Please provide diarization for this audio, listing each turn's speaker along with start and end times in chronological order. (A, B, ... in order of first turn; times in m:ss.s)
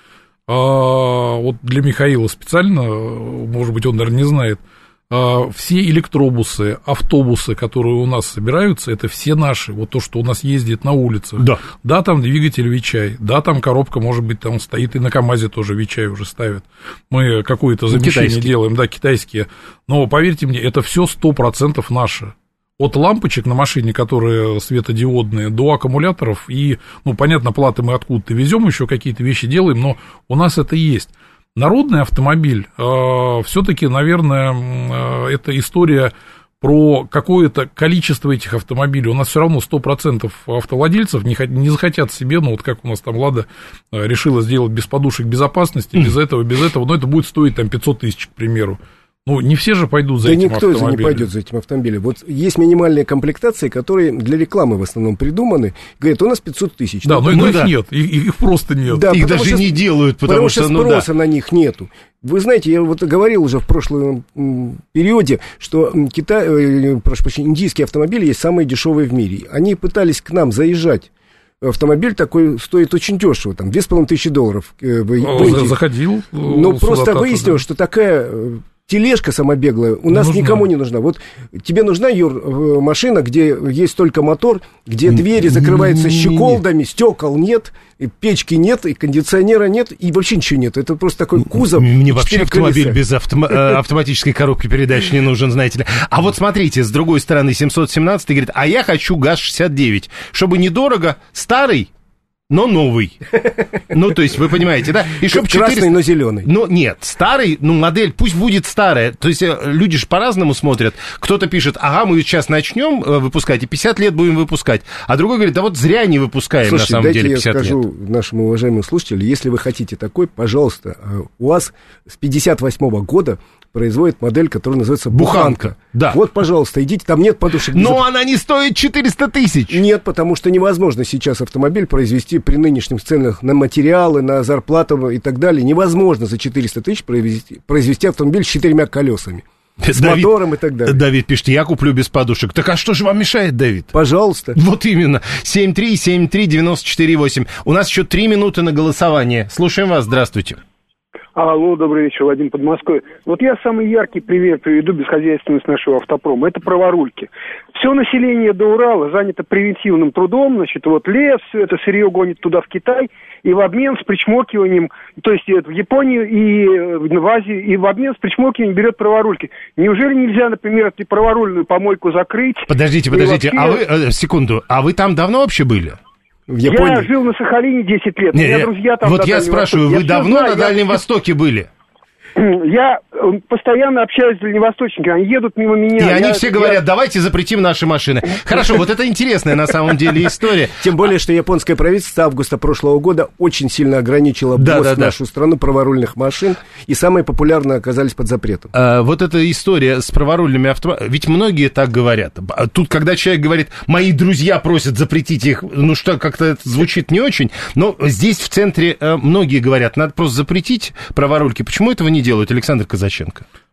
0:00.5-0:51.3 A
0:17.9-0:18.5 B
0:50.2-0:57.6 C
0:57.0-0:59.1 A
0:57.3-0:57.7 B
0:58.9-1:11.1 C
0:59.1-1:01.1 B
1:11.6-1:15.8 C
1:15.2-1:17.6 A
1:16.4-1:33.0 C
1:20.1-1:20.6 A
1:25.3-1:26.6 B
1:31.5-1:41.9 B
1:33.5-1:33.8 C
1:42.5-1:57.8 B
1:45.2-1:46.5 C
1:56.6-2:08.0 C
2:05.1-2:06.2 B
2:07.7-2:09.8 B
2:09.7-2:19.4 C
2:19.8-2:20.3 B
2:19.9-2:21.0 C
2:20.8-2:23.9 B
2:23.9-2:24.6 C
2:24.5-2:30.6 B
2:31.4-2:53.8 D
2:52.7-2:56.0 B
2:56.5-2:57.1 C
2:56.6-3:01.0 D
2:58.3-3:01.7 B
3:02.4-3:06.8 D
3:06.0-3:10.8 B
3:10.8-3:18.7 C
3:14.6-3:15.1 B
3:18.7-3:33.4 B